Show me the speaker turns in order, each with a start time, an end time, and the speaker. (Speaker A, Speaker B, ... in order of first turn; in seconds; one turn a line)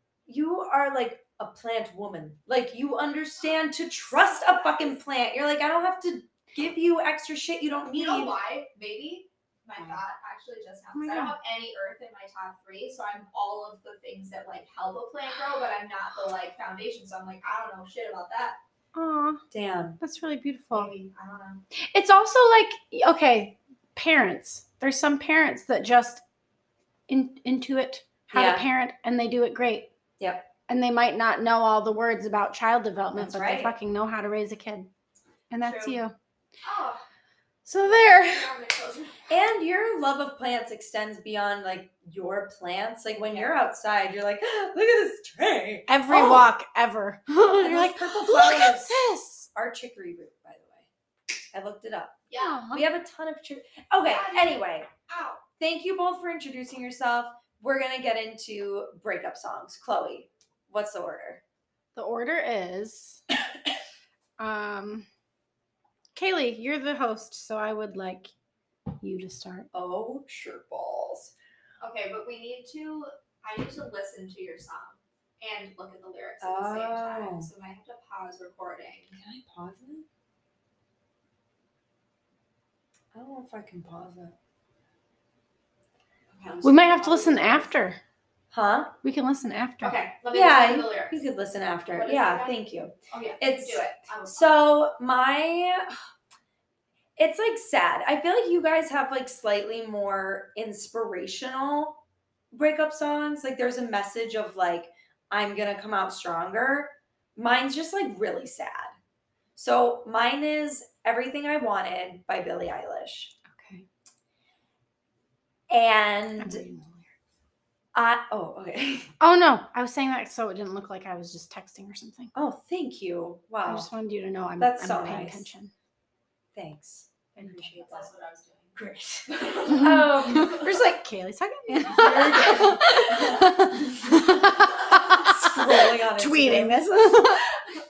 Speaker A: 0.3-8.3
Speaker B: 4.1-5.0
Speaker B: 7.9-18.6
Speaker C: 10.9-11.3
Speaker C: 18.9-19.4
Speaker A: 19.5-20.0
Speaker C: 20.0-20.9
Speaker B: 20.7-21.6
Speaker C: 21.8-26.2
Speaker C: 27.1-29.9
Speaker A: 28.3-28.7
Speaker A: 30.2-30.5
Speaker C: 30.7-34.9
Speaker A: 33.1-33.8
Speaker C: 35.5-36.1
Speaker B: 35.6-36.0
Speaker B: 36.6-37.0
Speaker C: 37.7-38.5
Speaker B: 37.8-39.4
Speaker A: 39.3-46.5
Speaker B: 43.2-43.6
Speaker C: 45.9-49.5
Speaker A: 47.5-50.9
Speaker A: 51.5-54.9
Speaker B: 52.3-52.7
Speaker C: 52.4-52.8
Speaker B: 54.0-55.4
Speaker A: 55.6-61.4
Speaker C: 62.0-63.2
Speaker C: 64.4-65.1
Speaker C: 66.1-68.3
Speaker C: 69.0-69.7
Speaker A: 69.7-71.3
Speaker B: 71.8-79.2
Speaker A: 76.4-77.5
Speaker A: 79.2-80.1
Speaker A: 83.1-84.3
Speaker B: 86.3-87.7
Speaker C: 86.6-88.0
Speaker A: 88.5-88.9
Speaker C: 89.0-90.0
Speaker B: 89.8-91.2
Speaker A: 90.3-96.0
Speaker B: 91.9-92.6
Speaker B: 93.1-94.5
Speaker A: 97.2-102.0
Speaker A: 102.5-108.9
Speaker A: 109.6-113.4
Speaker C: 113.5-113.9
Speaker A: 115.7-116.6
Speaker C: 116.4-117.1
Speaker A: 118.0-119.1
Speaker C: 119.2-122.3
Speaker A: 122.3-123.9
Speaker C: 123.7-125.7
Speaker A: 124.6-125.5
Speaker A: 126.5-128.1
Speaker C: 127.4-127.7
Speaker B: 127.7-128.8
Speaker A: 128.8-130.8
Speaker B: 129.3-130.7
Speaker C: 129.7-137.5
Speaker A: 131.8-136.9